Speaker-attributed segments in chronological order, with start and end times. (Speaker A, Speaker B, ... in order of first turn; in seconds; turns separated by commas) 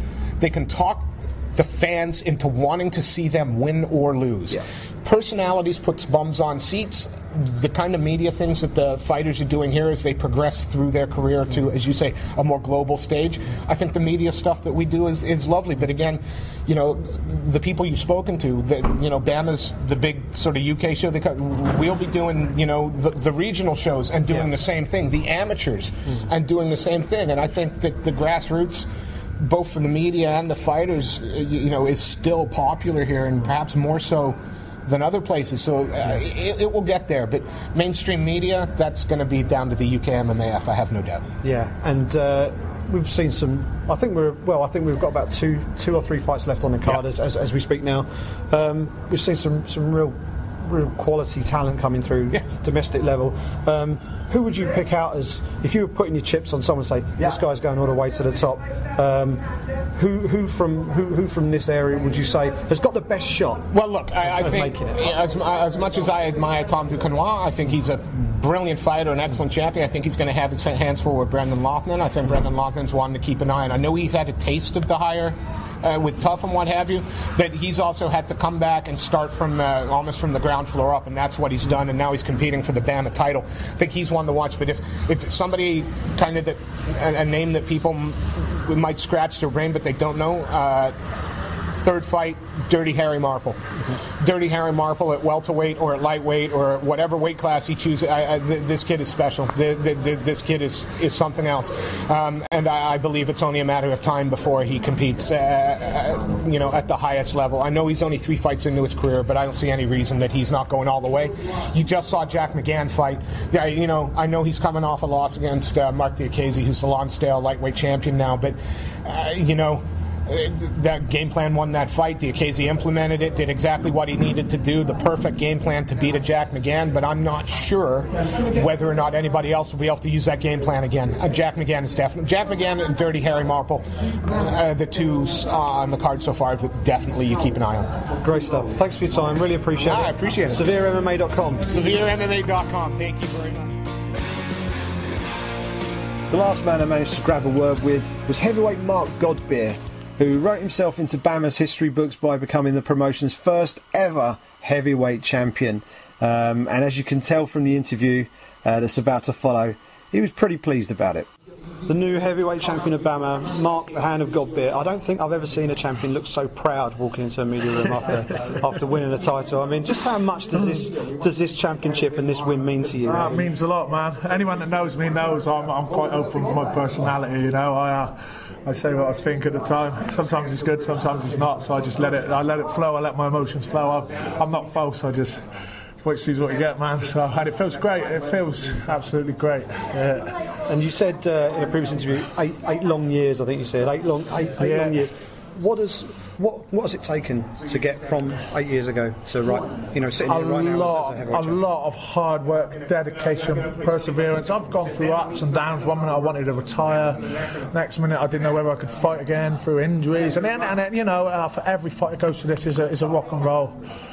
Speaker A: 0.4-28.9, Speaker A: 29.4-41.2, Speaker B: 41.4-59.4, Speaker B: 59.9-63.7, Speaker A: 63.7-93.6, Speaker B: 64.2-65.0, Speaker A: 94.2-137.9, Speaker B: 138.2-141.8, Speaker A: 139.8-140.7, Speaker A: 141.7-143.7, Speaker C: 146.3-161.3, Speaker B: 161.8-173.4, Speaker D: 173.0-185.5, Speaker D: 186.0-190.4, Speaker B: 190.7-201.6, Speaker D: 194.6-195.0, Speaker D: 200.2-213.8